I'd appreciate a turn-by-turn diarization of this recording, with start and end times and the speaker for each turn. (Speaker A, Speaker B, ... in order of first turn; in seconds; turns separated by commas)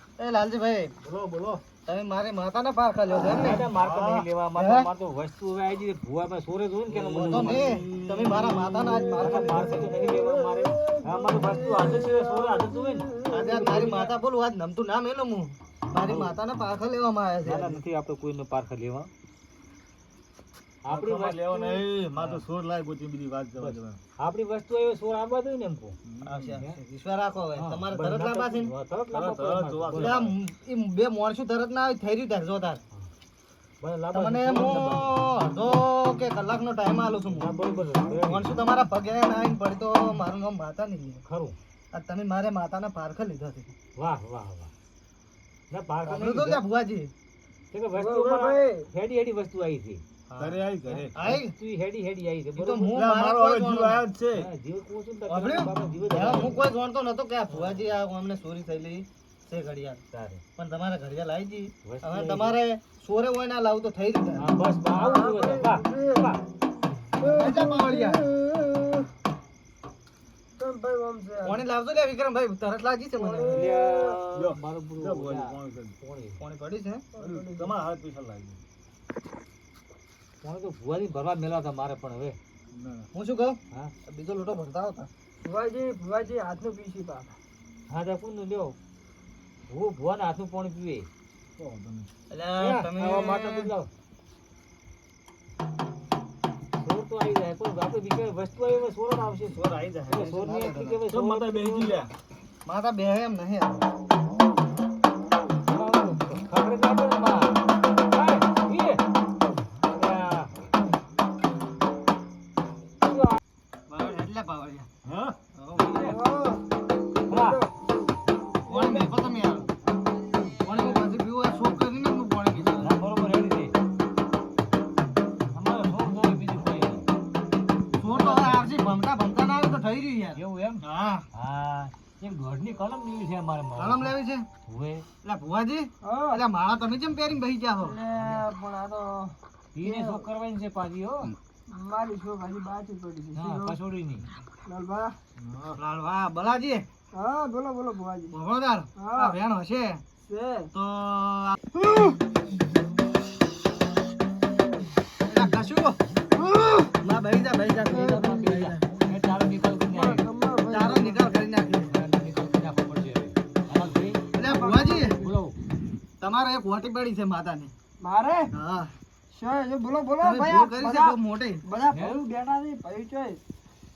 Speaker A: 0.2-0.9, Speaker B: 1.0-1.6, Speaker A: 1.9-3.7, Speaker C: 3.2-7.8, Speaker B: 3.3-4.3, Speaker A: 4.5-4.9, Speaker B: 6.9-8.9, Speaker A: 7.1-9.9, Speaker D: 8.7-13.9, Speaker C: 9.2-14.1, Speaker A: 13.3-17.8, Speaker C: 16.0-16.4, Speaker C: 17.4-19.1, Speaker C: 20.8-22.4, Speaker B: 20.9-24.0, Speaker C: 23.6-26.0, Speaker B: 26.1-26.5, Speaker A: 26.2-28.7, Speaker C: 27.6-30.2, Speaker B: 29.1-30.4, Speaker A: 29.9-32.8, Speaker C: 33.8-35.3, Speaker A: 34.1-37.6, Speaker C: 37.3-38.5, Speaker A: 38.2-41.2, Speaker C: 41.3-41.5, Speaker A: 41.9-43.7, Speaker C: 44.0-44.7, Speaker C: 45.7-46.6, Speaker A: 46.0-47.1, Speaker C: 47.7-50.0, Speaker D: 48.0-48.9, Speaker A: 50.3-50.6, Speaker B: 50.4-51.2, Speaker A: 51.1-51.5, Speaker C: 51.2-52.9, Speaker A: 52.5-54.1, Speaker B: 52.9-54.5, Speaker C: 54.3-56.7, Speaker A: 55.3-60.0, Speaker C: 57.5-57.9, Speaker C: 60.1-60.4, Speaker A: 60.6-64.5, Speaker C: 61.9-62.6, Speaker C: 64.4-66.4, Speaker D: 64.9-66.3, Speaker D: 67.2-69.1, Speaker A: 67.3-68.3, Speaker D: 70.6-71.6, Speaker A: 71.4-73.6, Speaker D: 73.2-74.2, Speaker C: 73.5-76.4, Speaker B: 74.3-76.0, Speaker A: 76.4-77.1, Speaker D: 77.2-77.8, Speaker B: 77.2-78.6, Speaker C: 80.4-82.4, Speaker B: 82.7-83.1, Speaker A: 83.1-85.1, Speaker D: 85.5-87.4, Speaker C: 87.9-88.8, Speaker C: 89.7-91.1, Speaker B: 91.6-92.1, Speaker A: 92.3-93.7, Speaker C: 92.6-93.9, Speaker C: 96.8-102.0, Speaker A: 99.6-101.0, Speaker B: 101.1-102.1, Speaker A: 102.7-103.8, Speaker C: 105.7-109.0, Speaker C: 109.9-110.5, Speaker C: 113.0-113.4, Speaker A: 113.9-114.9, Speaker B: 115.0-115.4, Speaker A: 115.5-116.0, Speaker C: 115.8-116.2, Speaker D: 115.9-116.7, Speaker D: 117.3-117.7, Speaker C: 117.3-117.6, Speaker D: 118.7-119.1, Speaker A: 118.7-119.7, Speaker A: 120.6-123.0, Speaker C: 122.6-123.8, Speaker C: 125.5-127.0, Speaker A: 128.0-131.2, Speaker C: 128.0-128.7, Speaker C: 130.4-134.1, Speaker A: 133.8-134.5, Speaker C: 134.7-135.1, Speaker A: 135.2-138.0, Speaker D: 136.0-136.4, Speaker D: 137.8-140.2, Speaker C: 139.7-141.3, Speaker D: 141.7-143.8, Speaker C: 143.4-144.3, Speaker D: 144.7-145.2, Speaker B: 145.4-145.8, Speaker A: 145.8-146.9, Speaker D: 147.1-148.4, Speaker A: 148.3-150.0, Speaker D: 149.0-149.4, Speaker D: 150.3-150.7, Speaker A: 150.7-151.6, Speaker A: 155.2-156.0, Speaker D: 156.4-156.9, Speaker A: 156.9-158.9, Speaker C: 157.9-160.2, Speaker D: 157.9-158.3, Speaker D: 159.9-161.2, Speaker A: 160.7-162.0, Speaker C: 161.9-164.2, Speaker A: 164.3-165.2, Speaker D: 164.4-165.3, Speaker C: 165.2-165.6, Speaker A: 166.2-167.7, Speaker D: 168.0-168.5, Speaker A: 168.5-168.9, Speaker D: 169.3-173.4, Speaker A: 170.2-171.6, Speaker C: 171.9-172.2